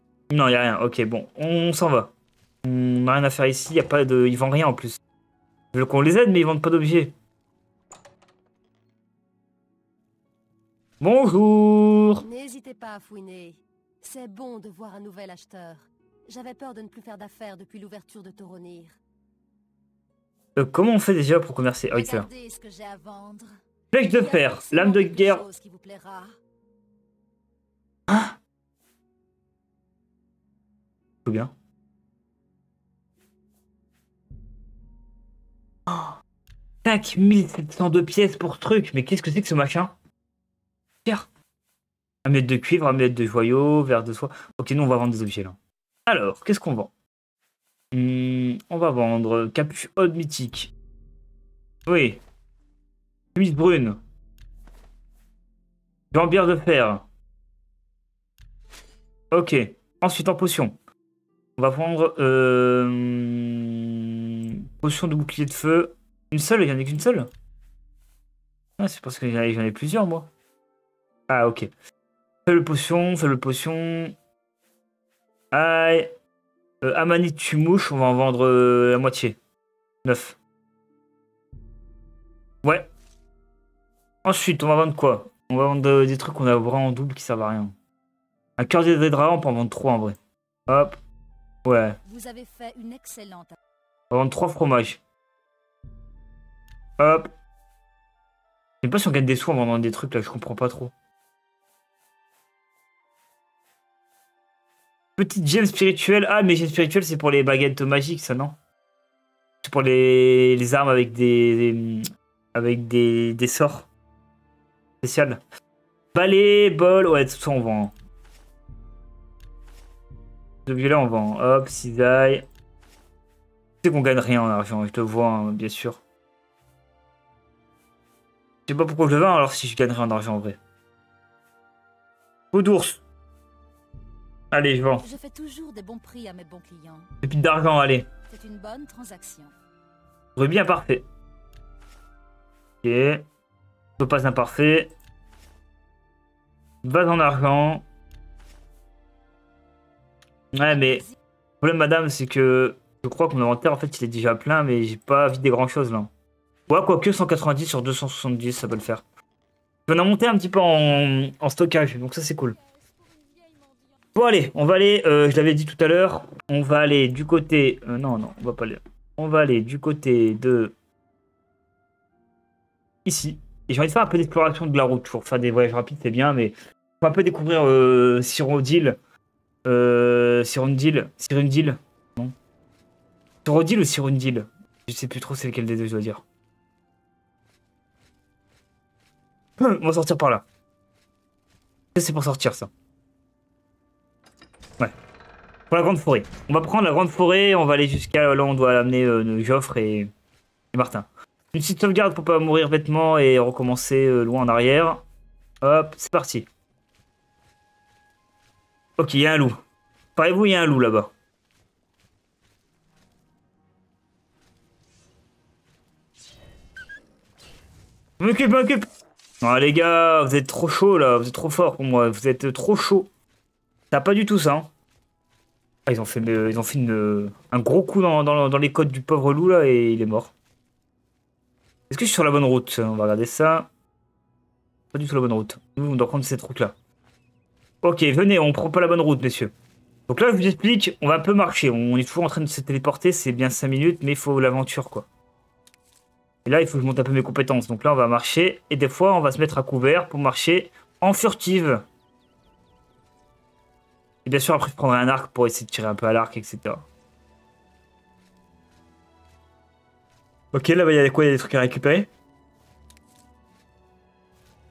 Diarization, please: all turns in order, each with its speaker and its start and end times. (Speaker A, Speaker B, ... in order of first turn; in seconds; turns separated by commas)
Speaker A: 0.3-2.1, Speaker A: 2.6-5.0, Speaker A: 5.7-7.1, Speaker A: 11.0-12.2, Speaker B: 12.2-19.0, Speaker A: 20.6-22.3, Speaker B: 21.9-26.4, Speaker A: 23.9-25.4, Speaker A: 28.1-28.4, Speaker A: 31.2-31.5, Speaker A: 35.9-36.1, Speaker A: 36.8-39.9, Speaker A: 42.2-46.9, Speaker A: 47.9-50.7, Speaker A: 51.9-52.2, Speaker A: 53.3-54.0, Speaker A: 56.1-57.0, Speaker A: 59.3-60.8, Speaker A: 61.6-67.3, Speaker A: 68.8-70.3, Speaker A: 71.3-71.7, Speaker A: 72.5-74.1, Speaker A: 75.5-76.1, Speaker A: 76.8-79.4, Speaker A: 80.0-80.3, Speaker A: 82.6-82.9, Speaker A: 84.2-87.7, Speaker A: 88.6-90.2, Speaker A: 90.7-91.0, Speaker A: 91.6-92.0, Speaker B: 92.0-93.6, Speaker A: 94.1-95.0, Speaker A: 97.0-97.3, Speaker A: 98.8-100.9, Speaker A: 105.2-108.5, Speaker A: 109.6-113.9, Speaker A: 115.0-115.4, Speaker A: 116.1-117.9, Speaker A: 120.7-122.4, Speaker A: 123.8-126.0, Speaker A: 128.7-130.6, Speaker A: 132.5-133.0, Speaker A: 134.5-135.0, Speaker B: 135.0-137.1, Speaker A: 137.2-138.1, Speaker B: 138.3-139.5, Speaker A: 140.3-141.0, Speaker A: 142.8-143.2, Speaker A: 144.0-144.9, Speaker A: 146.8-147.8, Speaker A: 150.5-151.0, Speaker B: 150.7-151.1, Speaker A: 151.6-156.1, Speaker A: 156.7-159.0, Speaker A: 159.9-162.6, Speaker B: 162.8-163.9, Speaker A: 164.1-170.7, Speaker A: 173.0-179.0, Speaker A: 179.7-182.3, Speaker A: 183.4-186.2, Speaker A: 189.6-190.4, Speaker A: 191.9-192.7, Speaker A: 195.7-200.1, Speaker A: 200.7-205.0, Speaker A: 205.6-206.4, Speaker A: 209.0-209.6, Speaker A: 210.2-211.1, Speaker A: 218.2-218.8, Speaker A: 219.4-223.1, Speaker A: 223.9-224.7, Speaker A: 225.8-230.3, Speaker A: 231.9-233.7, Speaker A: 234.9-236.7, Speaker A: 237.8-239.5, Speaker A: 240.1-245.1, Speaker A: 246.4-251.8, Speaker A: 254.2-256.8, Speaker A: 260.5-262.1